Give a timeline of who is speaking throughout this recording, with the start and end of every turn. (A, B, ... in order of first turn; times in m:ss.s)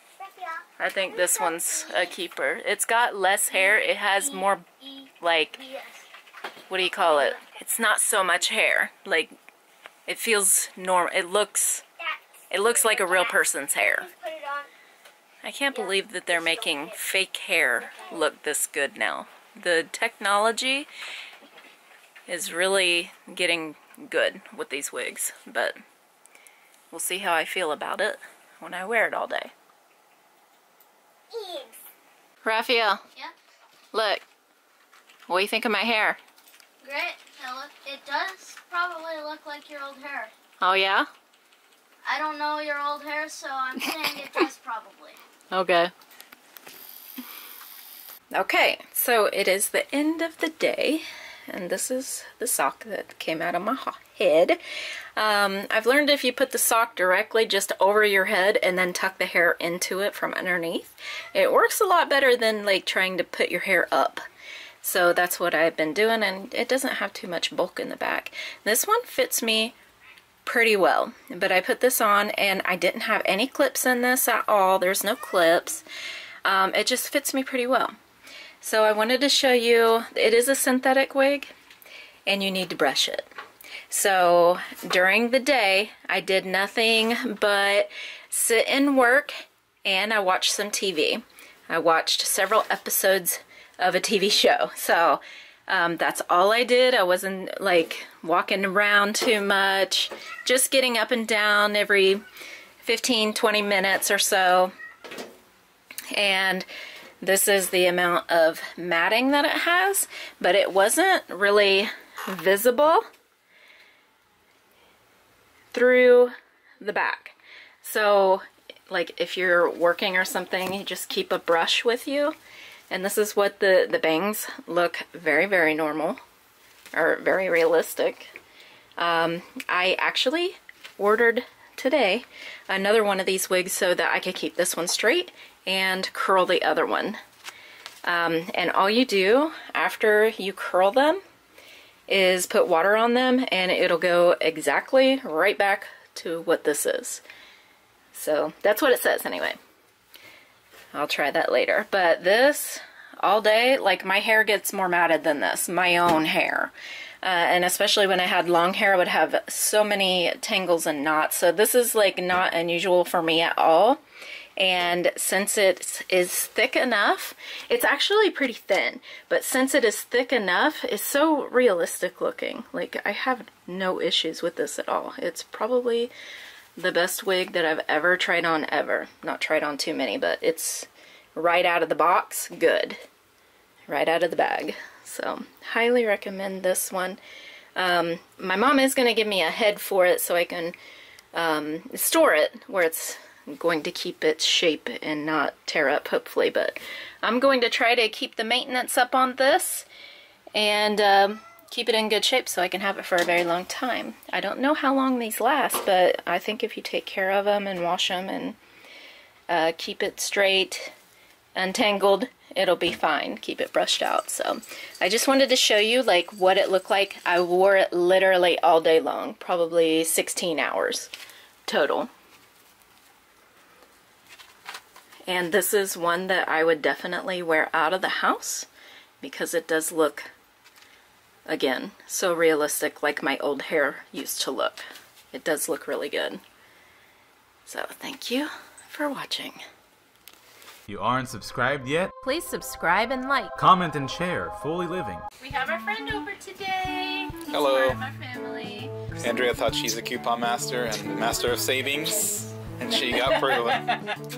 0:00.2-0:00.6 A
0:00.8-0:05.7 B
0:05.7-0:06.0 A
0:06.7-0:09.4 B
0:10.1-0:11.8 B
0:12.5-0:14.1 B
0:14.1-0:14.7 A
0:15.4-0:20.9 B
0:22.3-0:25.8 B
0:26.9-0:29.5 B
0:31.3-0:31.7 A
0:32.4-0:33.0 B
0:33.9-0:34.2 B
0:35.3-0:36.2 B
0:36.8-0:40.3 A
0:40.6-0:41.1 B
0:42.0-0:45.2 A
0:43.8-0:44.5 B
0:45.5-0:45.9 B
0:48.3-0:54.6 B
0:55.2-1:04.2 B
1:04.8-1:09.8 B
1:10.4-1:15.8 B
1:16.4-1:18.0 B
1:18.6-1:21.5 B
1:22.3-1:23.3 B
1:23.9-1:42.2 B
1:42.8-1:44.7 B
1:46.1-1:46.7 B
1:47.2-1:53.0 B
1:55.7-2:02.4 B
2:02.9-2:06.2 B
2:06.9-2:08.3 B
2:09.0-2:17.2 B
2:18.0-2:21.2 B
2:22.1-2:27.2 B
2:28.1-2:29.6 B
2:30.9-2:44.0 B
2:44.6-2:56.1 B
2:56.8-3:03.0 B
3:03.9-3:07.2 B
3:07.8-3:10.8 B
3:11.3-3:19.9 B
3:20.6-3:28.6 B
3:29.5-3:30.9 B
3:31.6-3:41.1 B
3:41.7-3:42.1 B
3:45.3-3:48.7 B
3:49.2-3:50.3 B
3:51.5-3:56.4 B
3:57.7-3:59.6 B
4:00.9-4:02.1 C
4:02.2-4:03.6 B
4:03.6-4:05.2 C
4:05.4-4:09.3 B
4:07.5-4:08.0 D
4:09.2-4:13.9 D
4:11.9-4:14.1 B